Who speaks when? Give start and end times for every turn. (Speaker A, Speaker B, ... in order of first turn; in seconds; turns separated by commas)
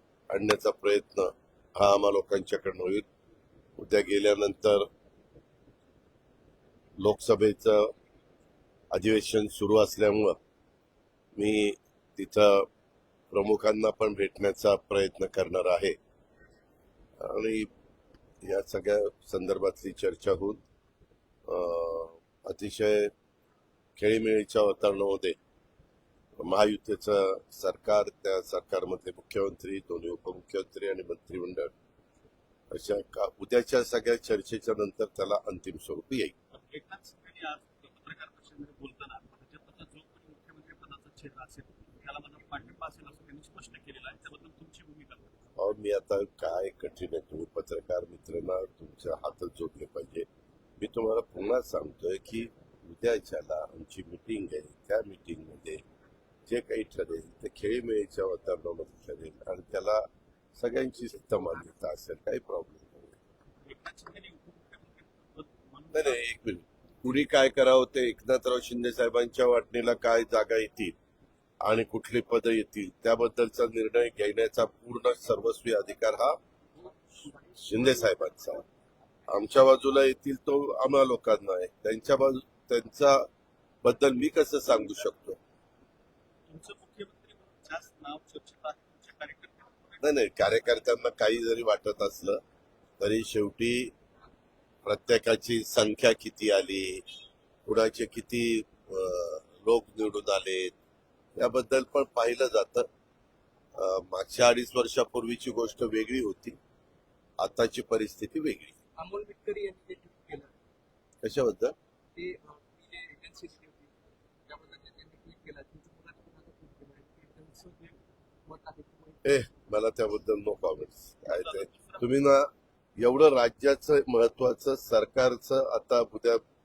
Speaker A: 0.3-3.1, Speaker A: 3.8-4.9, Speaker A: 7.0-7.9, Speaker A: 8.9-10.4, Speaker A: 11.4-12.7, Speaker A: 13.3-16.0, Speaker A: 17.2-17.7, Speaker A: 18.4-20.6, Speaker A: 21.5-23.1, Speaker A: 24.0-25.4, Speaker A: 26.4-31.7, Speaker A: 32.7-36.3, Speaker B: 36.5-45.3, Speaker A: 45.6-50.3, Speaker A: 50.8-55.8, Speaker A: 56.5-63.1, Speaker B: 63.6-66.3, Speaker A: 65.9-70.9, Speaker A: 71.6-76.4, Speaker C: 77.2-77.6, Speaker A: 77.6-78.6, Speaker A: 79.3-83.3, Speaker A: 83.8-85.4, Speaker B: 86.5-90.1, Speaker A: 90.0-92.4, Speaker A: 93.0-93.9, Speaker A: 94.8-97.0, Speaker A: 97.7-100.7, Speaker A: 101.4-102.9, Speaker A: 103.8-106.6, Speaker A: 107.4-108.8, Speaker C: 109.0-110.5, Speaker A: 111.2-111.8, Speaker C: 112.2-113.9, Speaker C: 114.5-119.3, Speaker A: 119.2-126.4, Speaker B: 121.3-122.1